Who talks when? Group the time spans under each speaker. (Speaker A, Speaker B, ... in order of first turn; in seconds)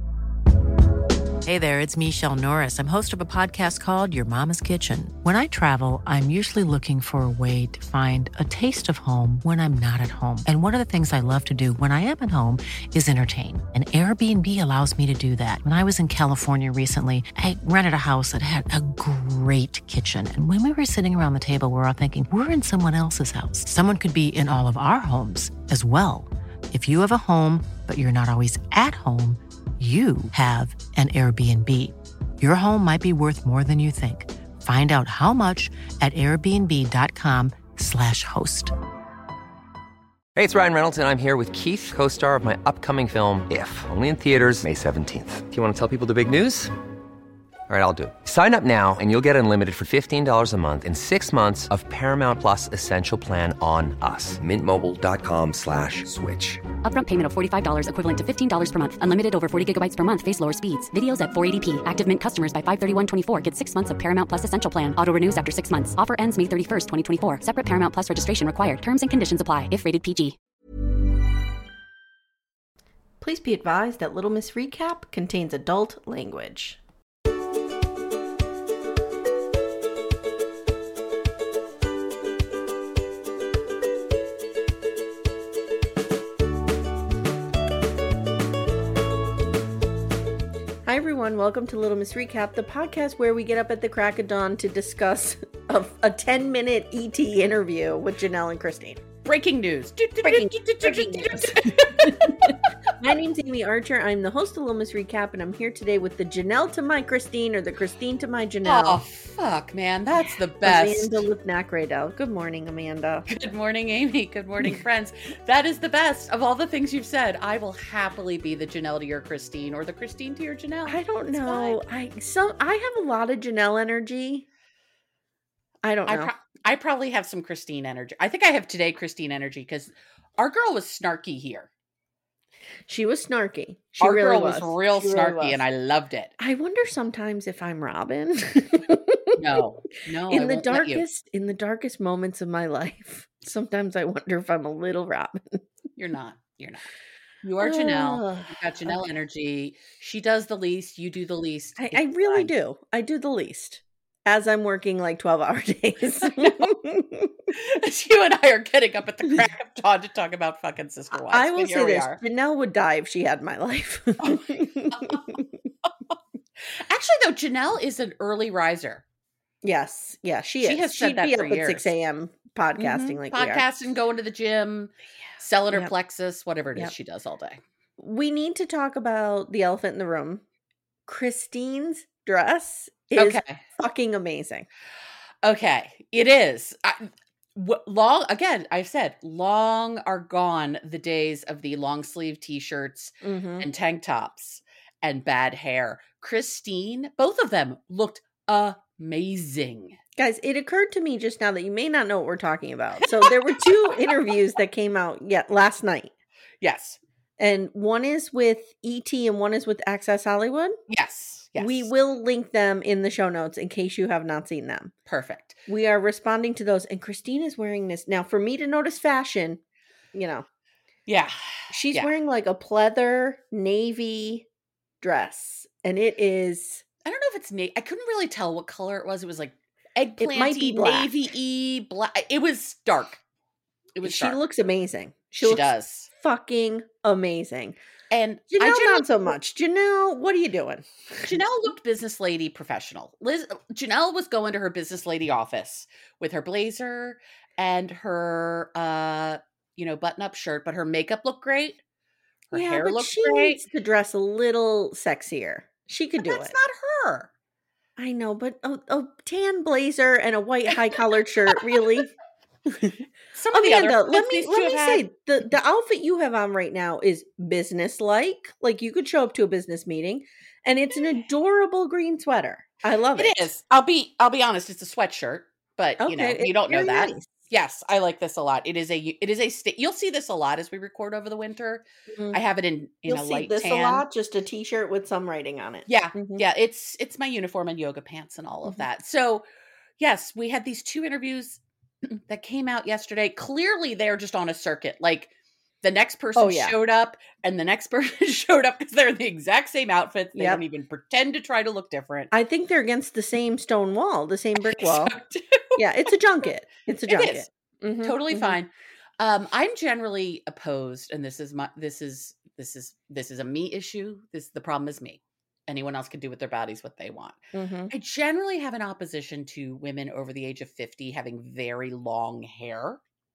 Speaker A: 1.4-38.7
Speaker B: 40.4-46.7, 47.7-56.6
Speaker C: 56.8-70.4
Speaker D: 73.2-76.8, 90.8-99.0, 100.2-109.0, 110.2-113.3, 120.9-124.5, 125.8-126.3, 132.9-135.6, 136.4-139.4, 140.3-145.6, 147.6-148.9, 151.8-157.3, 161.3-165.4, 169.6-173.7, 178.0-180.4, 181.1-184.7, 193.2-193.7, 200.2-206.1, 207.4-210.8, 211.6-214.9, 215.7-219.6, 220.1-220.5, 221.7-224.5, 225.0-226.8, 230.2-231.1, 234.0-237.8, 238.5-241.4, 252.5-256.6, 258.0-262.1, 262.7-273.4, 276.0-277.3, 282.1-282.4, 283.1-286.4, 296.4-296.8, 300.4-300.6, 302.3-305.2, 305.8-308.6, 317.5-317.9
Speaker E: 99.3-102.6, 108.7-111.2, 113.3-121.8, 126.1-131.7, 134.0-136.3, 139.3-141.1, 146.0-146.9, 147.4-152.5, 156.4-156.7, 157.5-162.2, 164.2-165.4, 166.7-169.0, 170.6-171.9, 172.8-177.6, 183.2-183.6, 185.4-200.0, 203.0-204.4, 206.6-207.0, 210.9-211.9, 215.1-215.6, 221.1-222.1, 227.1-233.2, 234.0-234.4, 235.4-236.1, 238.1-239.4, 241.2-251.8, 252.5-253.6, 256.2-257.3, 263.4-265.0, 273.2-284.1, 285.9-289.4, 290.0-302.3, 304.7-305.9, 307.1-307.5, 308.0-323.0